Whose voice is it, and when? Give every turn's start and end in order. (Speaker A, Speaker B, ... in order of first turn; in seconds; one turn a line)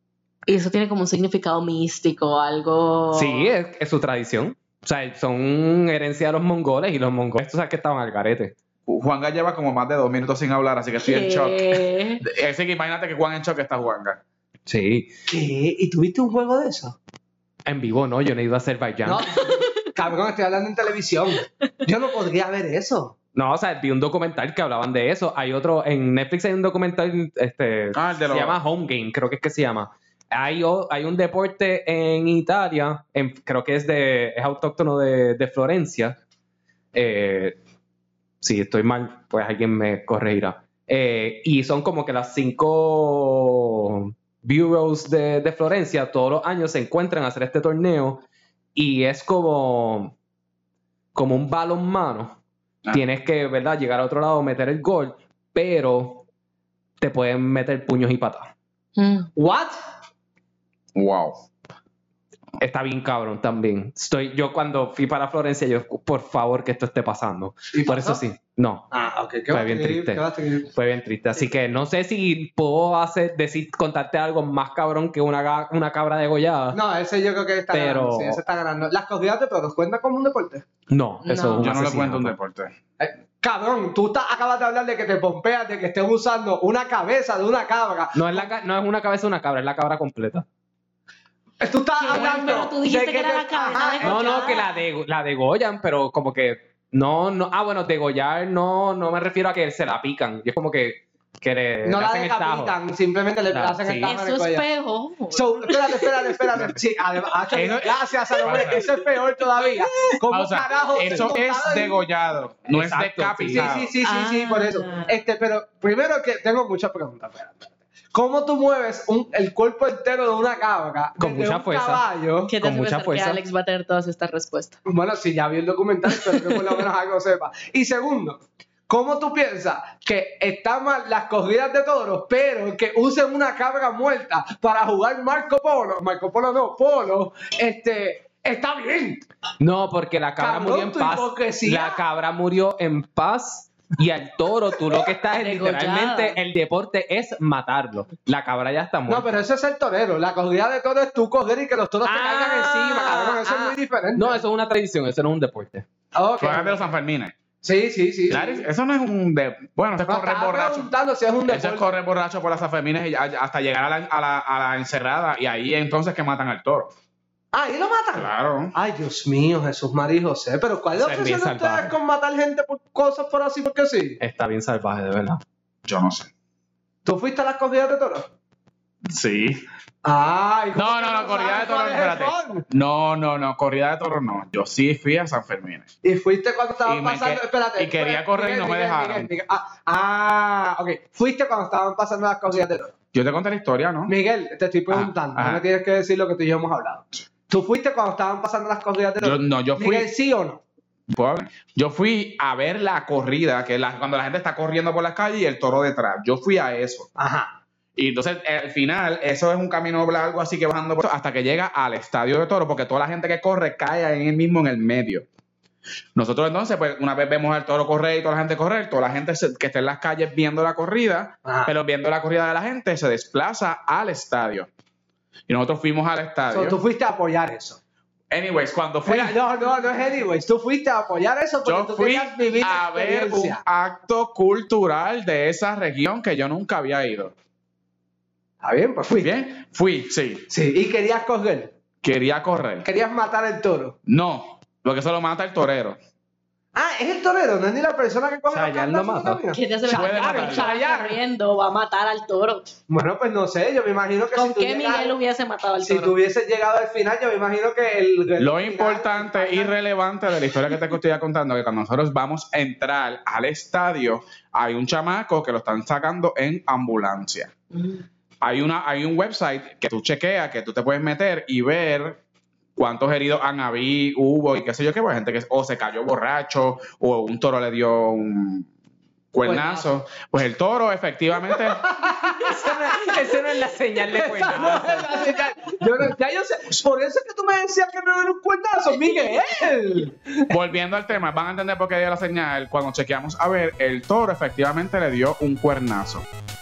Speaker A: 0.5-3.5
Speaker B: 3.1-8.6
Speaker C: 8.9-14.2
Speaker A: 11.0-12.2
Speaker B: 14.7-15.1
Speaker D: 15.3-17.0
Speaker B: 17.7-19.4
Speaker D: 19.0-23.1
Speaker B: 23.4-36.2
Speaker C: 27.9-28.6
Speaker B: 36.9-37.6
Speaker B: 38.4-50.1
Speaker B: 51.1-52.4
Speaker B: 52.9-56.3
Speaker B: 57.0-58.5
Speaker A: 59.0-59.3
Speaker D: 59.4-59.8
Speaker C: 60.9-61.4
Speaker B: 62.6-68.9
Speaker D: 67.7-68.2
Speaker D: 68.9-70.7
Speaker B: 69.5-76.8
Speaker D: 76.7-80.7
Speaker B: 77.7-78.4
Speaker B: 80.9-82.3
Speaker A: 81.2-81.7
Speaker C: 81.6-82.7
Speaker D: 83.0-88.5
Speaker B: 88.1-90.5
Speaker D: 91.6-94.6
Speaker A: 92.0-94.8
Speaker B: 94.0-102.8
Speaker D: 101.8-104.7
Speaker B: 103.5-104.2
Speaker A: 104.1-106.4
Speaker D: 105.3-112.0
Speaker B: 107.5-108.9
Speaker A: 109.6-110.1
Speaker C: 110.3-114.0
Speaker B: 112.7-113.7
Speaker D: 113.5-122.5
Speaker A: 114.0-115.2
Speaker B: 121.2-123.4
Speaker A: 122.5-124.8
Speaker D: 124.9-139.3
Speaker A: 126.1-126.8
Speaker B: 139.6-149.4
Speaker D: 140.4-142.0
Speaker A: 145.3-146.4
Speaker D: 149.1-154.4
Speaker B: 152.1-155.9
Speaker D: 156.1-156.8
Speaker C: 156.4-157.4
Speaker D: 157.6-158.7
Speaker C: 158.3-160.9
Speaker D: 160.1-161.9
Speaker C: 161.5-166.9
Speaker D: 167.5-174.2
Speaker C: 168.2-168.7
Speaker B: 171.0-171.9
Speaker B: 174.2-175.4
Speaker C: 175.8-176.3
Speaker D: 177.1-178.3
Speaker C: 179.1-179.6
Speaker D: 180.0-182.7
Speaker C: 180.8-185.9
Speaker D: 186.0-192.9
Speaker C: 186.8-189.3
Speaker C: 193.1-194.1
Speaker D: 194.1-200.6
Speaker C: 194.9-195.6
Speaker C: 199.2-200.1
Speaker C: 201.1-207.1
Speaker D: 207.2-207.6
Speaker C: 208.0-215.3
Speaker C: 216.2-224.7
Speaker D: 221.4-221.7
Speaker C: 225.5-226.8
Speaker D: 226.5-227.8
Speaker C: 228.3-229.4
Speaker D: 229.1-233.6
Speaker C: 231.6-237.3
Speaker D: 238.6-239.4
Speaker C: 239.2-240.5
Speaker D: 240.5-241.7
Speaker C: 242.0-242.9
Speaker D: 242.8-244.0
Speaker C: 244.1-246.0
Speaker D: 246.7-251.2
Speaker B: 248.5-249.4
Speaker A: 249.5-252.7
Speaker C: 249.9-250.7
Speaker D: 252.9-255.1
Speaker A: 254.3-256.1
Speaker D: 255.8-259.8
Speaker C: 258.4-267.5
Speaker A: 267.8-268.0
Speaker C: 268.4-272.2
Speaker C: 272.8-278.7
Speaker C: 279.3-281.9
Speaker D: 279.4-279.9
Speaker D: 281.5-283.4
Speaker B: 282.3-285.5
Speaker D: 284.1-290.5
Speaker C: 290.5-296.3